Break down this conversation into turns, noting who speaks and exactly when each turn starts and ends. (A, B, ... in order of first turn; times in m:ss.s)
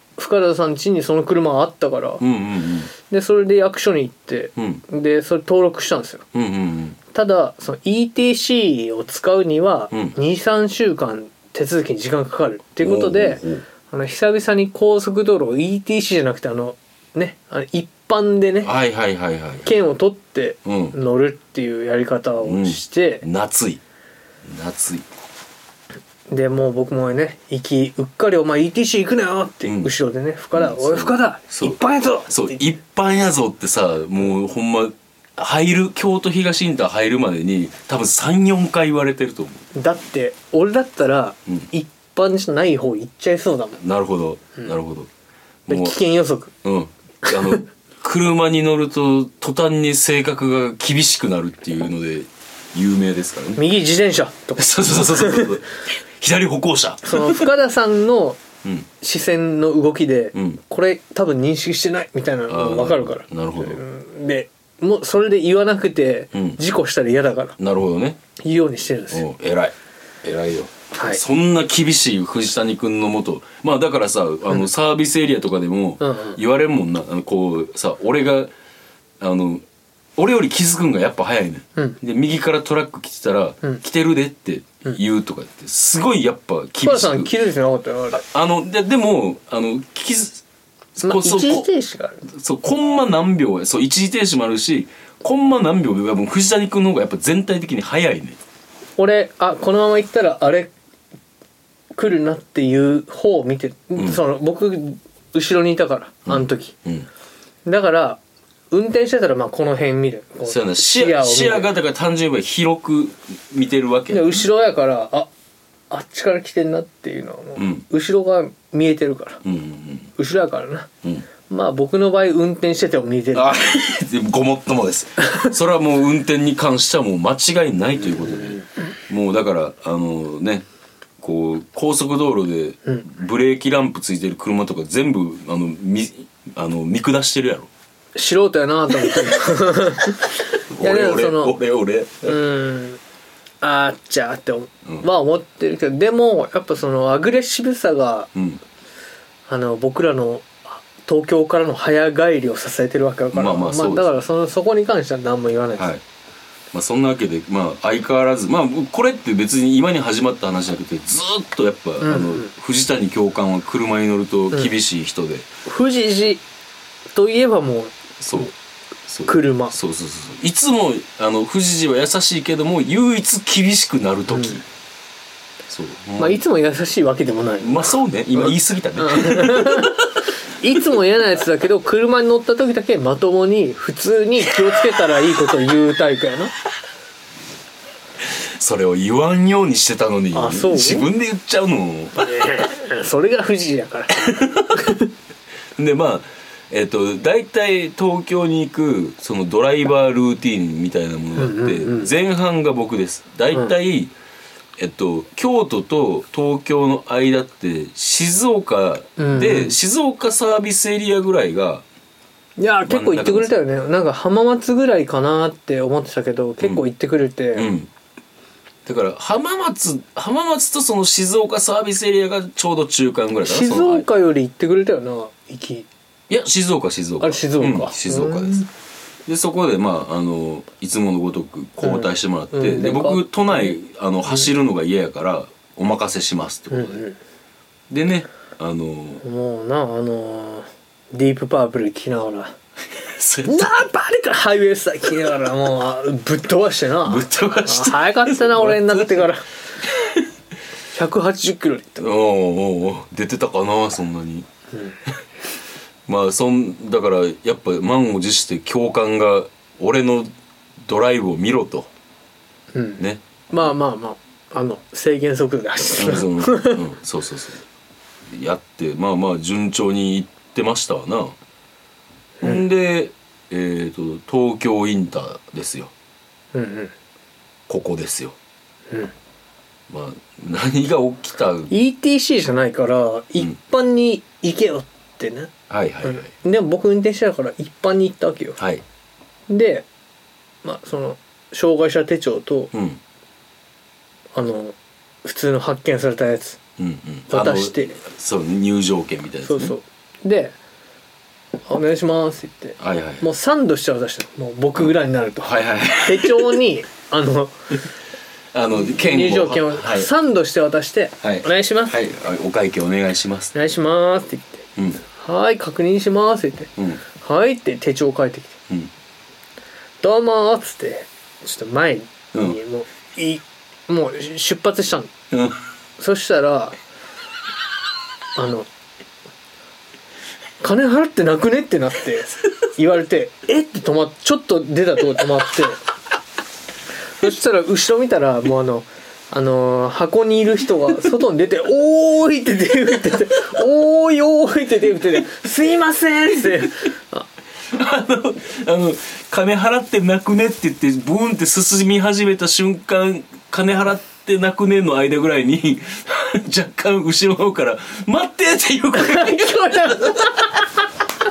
0:00.2-0:02.2 A
0:02.2-0:02.9 B
0:03.0-0:06.2 A
0:04.6-0:04.8 B
0:06.3-0:07.0 B
0:07.1-0:18.7 A
0:09.9-0:10.2 B
0:12.8-0:13.6 B
0:18.6-0:19.7 B
0:19.6-0:23.2 A
0:20.6-0:21.0 B
0:22.4-0:23.8 B
0:24.4-0:25.0 B
0:26.3-0:32.6 A
0:29.6-0:29.9 B
0:30.5-0:39.6 B
0:39.7-0:43.8 A
0:43.8-0:45.1 B
0:45.7-0:46.0 B
0:45.7-0:46.5 A
0:46.6-0:53.6 B
0:53.6-0:55.6 A
0:54.6-0:57.4 B
0:57.0-0:58.4 A
0:59.0-1:07.6 A
1:00.3-1:00.6 B
1:02.5-1:03.8 B
1:06.3-1:06.6 B
1:07.6-1:08.2 B
1:08.4-1:09.2 A
1:09.1-1:18.5 B
1:11.0-1:11.2 A
1:16.0-1:16.4 A
1:19.2-1:19.6 B
1:20.2-1:27.3 B
1:26.8-1:28.2 A
1:28.1-1:30.4 B
1:31.0-1:31.7 B
1:31.0-1:32.2 A
1:32.3-1:38.4 B
1:39.0-1:40.7 A
1:41.9-1:46.7 A
1:46.3-1:47.1 B
1:47.6-1:48.2 A
1:48.7-1:51.7 A
1:50.4-1:54.4 B
1:54.1-1:55.3 A
1:55.9-1:59.4 A
1:57.6-1:57.8 B
1:59.4-2:00.1 B
2:00.2-2:00.9 A
2:01.5-2:03.6 A
2:03.3-2:10.6 B
2:08.0-2:08.7 A
2:11.2-2:17.7 B
2:18.1-2:21.6 A
2:19.1-2:19.3 B
2:20.7-2:22.4 B
2:22.2-2:23.0 A
2:23.6-2:28.3 A
2:28.3-2:28.6 B
2:29.5-2:35.9 A
2:33.3-2:34.2 B
2:35.8-2:36.0 B
2:36.7-2:45.5 B
2:42.0-2:42.5 A
2:45.6-2:46.4 A
2:47.1-2:48.5 A
2:48.2-2:48.5 B
2:49.1-2:54.6 B
2:49.2-2:49.8 A
2:54.3-2:54.6 A
2:55.7-2:56.4 B
2:56.2-3:06.5 A
2:57.6-3:00.2 B
3:08.2-3:12.2 B
3:10.3-3:11.1 A
3:12.2-3:15.1 A
3:14.2-3:14.9 B
3:15.8-3:24.1 B
3:21.4-3:22.1 A
3:24.8-3:31.8 B
3:29.2-3:29.8 A
3:32.6-3:37.7 A
3:32.8-3:33.5 B
3:37.5-3:37.9 B
3:38.8-3:44.0 B
3:43.4-3:45.9 A
3:46.3-3:48.7 B
3:47.2-3:48.7 A
3:49.2-3:57.0 B
3:51.8-3:53.8 A
3:56.7-3:57.2 A
3:57.9-3:59.2 B
3:59.2-4:02.5 A
4:03.0-4:03.8 B
4:03.4-4:09.4 A
4:07.0-4:09.3 B
4:09.8-4:10.3 B
4:10.9-4:12.1 A
4:12.0-4:14.5 B
4:14.7-4:15.0 A
4:16.0-4:21.9 B
4:22.7-4:26.8 A
4:25.8-4:27.6 B
4:28.3-4:31.4 B
4:32.4-4:35.9 B
4:36.5-4:36.9 A
4:37.7-4:38.4 B
4:39.9-4:41.7 B
4:41.7-4:45.5 A
4:45.7-4:46.3 B
4:46.0-4:48.6 A
4:48.6-4:48.8 B
4:49.5-4:49.8 A
4:50.6-4:52.7 A
4:52.7-4:53.0 B
4:54.3-4:56.6 A
4:56.8-4:59.7 B
4:57.3-4:58.0 A
4:59.4-5:00.5 A
5:01.7-5:07.6 A
5:02.8-5:03.3 B
5:05.4-5:06.6 B
5:08.5-5:10.1 B
5:08.8-5:12.0 A
5:11.2-5:13.5 B
5:13.5-5:18.6 A
5:14.8-5:15.0 B
5:20.0-5:25.1 A
5:25.3-5:25.6 B
5:26.0-5:26.8 A
5:28.4-5:28.7 A
5:30.6-5:35.8 A
5:37.2-5:47.3 A
5:47.7-6:00.5 B
5:58.9-6:00.6 A